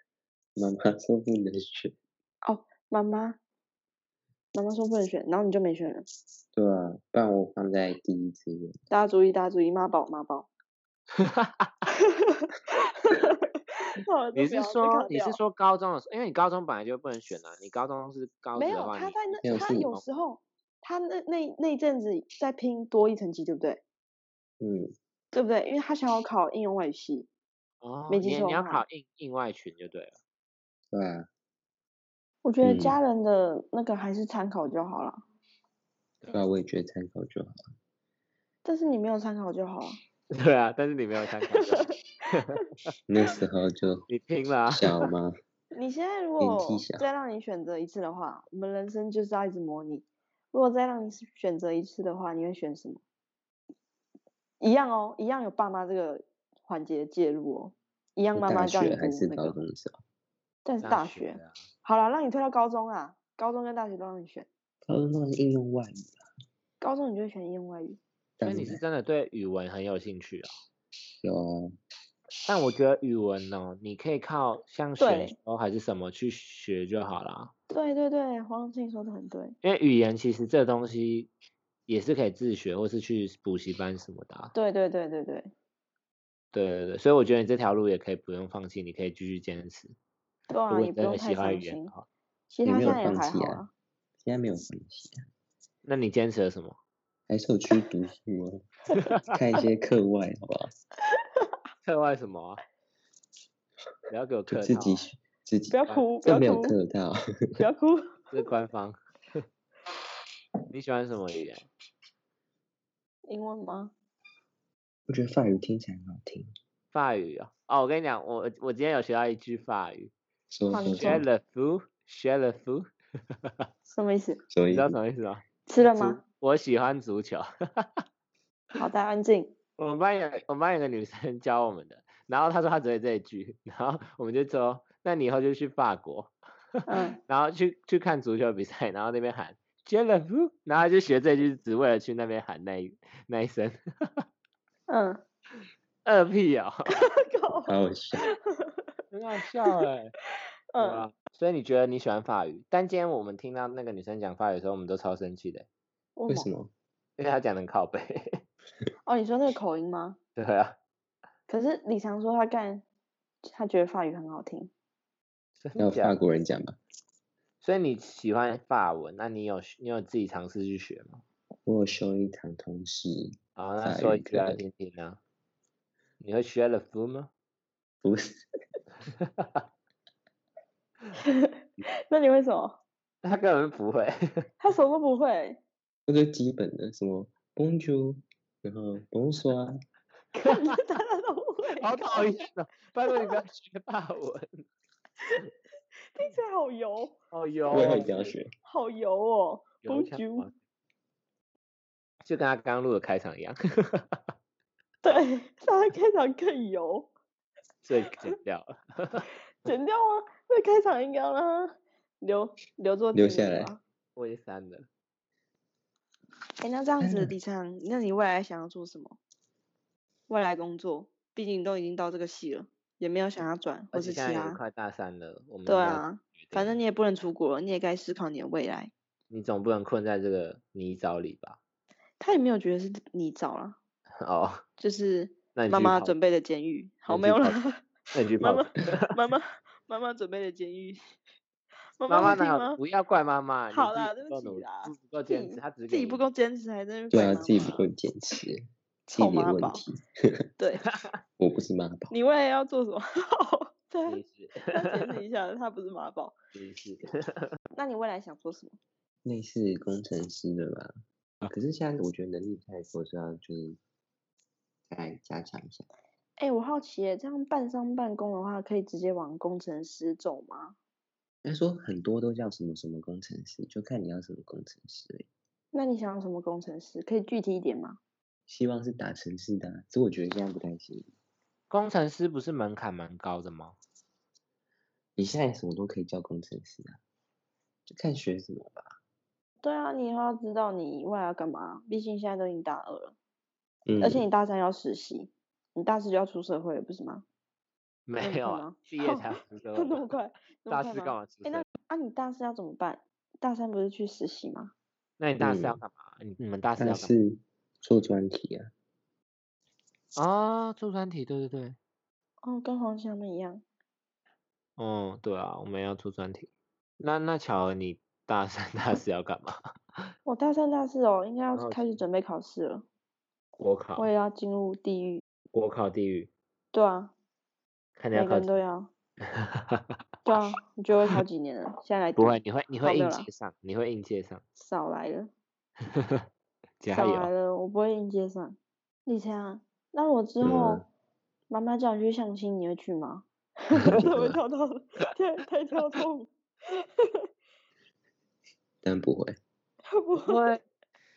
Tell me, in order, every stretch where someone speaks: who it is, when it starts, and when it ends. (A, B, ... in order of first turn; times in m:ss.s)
0:00.6-0:02.0 A
0:02.4-0:03.4 B
0:04.5-0:06.1 B
0:06.5-0:08.8 A
0:08.9-0:10.5 B
0:11.2-0:11.7 C
0:12.2-0:15.4 B
0:14.4-0:20.0 C
0:18.6-0:23.8 B
0:19.4-0:19.9 A
0:24.6-0:24.9 A
0:25.3-0:27.3 B
0:27.8-0:30.2 C
0:28.1-0:28.8 B
0:30.9-0:31.3 A
0:32.4-0:35.2 B
0:32.6-0:33.0 A
0:36.3-0:37.6 A
0:38.6-0:39.9 B
0:40.3-0:41.9 C
0:41.6-0:41.9 B
0:43.1-0:44.1 A
0:44.1-0:45.0 C
0:44.7-0:45.4 A
0:45.7-0:53.0 B
0:46.4-0:47.1 A
0:54.6-0:59.6 B
0:58.4-1:00.0 A
1:00.6-1:04.5 B
1:00.8-1:01.6 C
1:04.9-1:06.2 A
1:06.8-1:08.0 B
1:08.4-1:08.8 A
1:08.4-1:10.5 C
1:11.2-1:11.7 A
1:12.5-1:17.5 C
1:15.0-1:15.4 B
1:17.7-1:19.6 B
1:19.6-1:21.3 C
1:21.9-1:24.5 C
1:24.5-1:25.5 B
1:26.5-1:30.0 C
1:30.5-1:31.9 B
1:30.7-1:32.1 C
1:32.5-1:33.7 B
1:32.6-1:33.6 A
1:34.2-1:35.2 A
1:35.8-1:36.8 C
1:37.3-1:38.6 A
1:39.3-1:40.7 A
1:41.8-1:42.6 C
1:44.1-1:45.0 C
1:44.5-1:47.2 A
1:45.7-1:46.8 B
1:47.6-1:48.2 B
1:48.3-1:49.0 C
1:50.7-1:51.7 C
1:53.3-1:53.9 B
1:55.1-1:56.5 A
1:56.9-2:00.1 C
2:00.5-2:01.3 A
2:00.7-2:01.2 B
2:00.8-2:02.9 C
2:03.9-2:04.4 B
2:04.5-2:05.0 A
2:04.7-2:05.4 C
2:05.7-2:06.2 B
2:06.2-2:08.0 C
2:08.8-2:09.5 B
2:09.8-2:24.2 C
2:16.9-2:17.2 B
2:24.9-2:25.2 B
2:26.0-2:27.0 C
2:26.9-2:28.7 B
2:27.7-2:28.3 A
2:29.1-2:30.1 C
2:30.7-2:31.1 B
2:30.8-2:35.7 C
2:36.2-2:36.5 B
2:36.3-2:36.7 A
2:37.2-2:38.2 C
2:39.0-2:40.2 B
2:40.4-2:40.8 C
2:41.5-2:42.8 B
2:43.4-2:44.7 B
2:45.6-2:46.2 C
2:45.8-2:46.8 A
2:47.6-2:51.2 C
2:51.7-2:54.6 A
2:53.6-2:55.2 C
2:56.2-2:57.3 C
2:58.0-2:58.4 A
2:59.2-2:59.6 C
3:01.3-3:02.8 B
3:03.2-3:04.5 C
3:04.6-3:05.6 B
3:06.1-3:09.8 A
3:10.4-3:12.3 B
3:11.6-3:14.6 C
3:13.1-3:13.4 B
3:16.1-3:17.2 B
3:17.3-3:18.4 C
3:17.7-3:18.5 A
3:18.6-3:20.5 B
3:19.8-3:20.5 C
3:22.2-3:24.2 C
3:25.0-3:27.1 B
3:27.8-3:29.2 C
3:29.6-3:33.8 B
3:33.1-3:33.7 A
3:34.2-3:34.9 C
3:36.6-3:39.2 B
3:37.0-3:37.4 A
3:40.3-3:44.6 B
3:43.9-3:46.8 C
3:45.7-3:48.9 B
3:49.3-3:51.6 C
3:52.2-3:53.8 B
3:54.2-3:54.6 C
3:54.8-4:01.2 B
3:55.6-3:56.2 C
3:57.1-3:57.6 C
3:58.1-3:59.1 C
4:02.0-4:02.8 B
4:02.1-4:06.2 C
4:03.7-4:07.8 B
4:07.1-4:08.6 A
4:09.1-4:09.8 B
4:09.1-4:10.0 A
4:10.6-4:10.8 B
4:11.4-4:12.1 A
4:12.1-4:14.2 B
4:14.1-4:15.1 C
4:14.7-4:16.4 B
4:16.5-4:17.5 C
4:17.8-4:18.8 B
4:19.2-4:20.9 A
4:21.5-4:23.8 A
4:24.9-4:25.8 A
4:26.4-4:30.8 B
4:31.4-4:35.3 A
4:35.7-4:38.0 B
4:38.5-4:41.1 A
4:41.7-4:43.8 C
4:45.2-4:47.0 A
4:47.9-4:48.9 A
4:49.6-4:53.2 B
4:53.9-4:54.2 A
4:54.0-4:57.2 B
4:58.1-5:00.1 C
4:58.2-5:04.7 B
5:00.7-5:01.7 C
5:05.2-5:07.1 C
5:05.4-5:05.8 A
5:06.8-5:08.7 A
5:10.2-5:11.8 C
5:12.4-5:13.6 B
5:14.8-5:19.6 C
5:20.2-5:22.8 B
5:21.5-5:22.0 C
5:23.6-5:24.1 C
5:24.0-5:25.2 B
5:25.5-5:26.3 C
5:26.7-5:27.1 B
5:28.0-5:28.6 C
5:28.1-5:28.9 B
5:30.2-5:33.3 B
5:32.2-5:34.4 C
5:34.6-5:35.3 B
5:36.8-5:37.3 C
5:36.9-5:40.8 B
5:40.4-5:40.9 A
5:41.5-5:46.3 B
5:43.9-5:44.4 A
5:46.8-5:47.1 B
5:48.8-5:49.4 A
5:49.9-5:50.5 B
5:50.2-5:50.6 C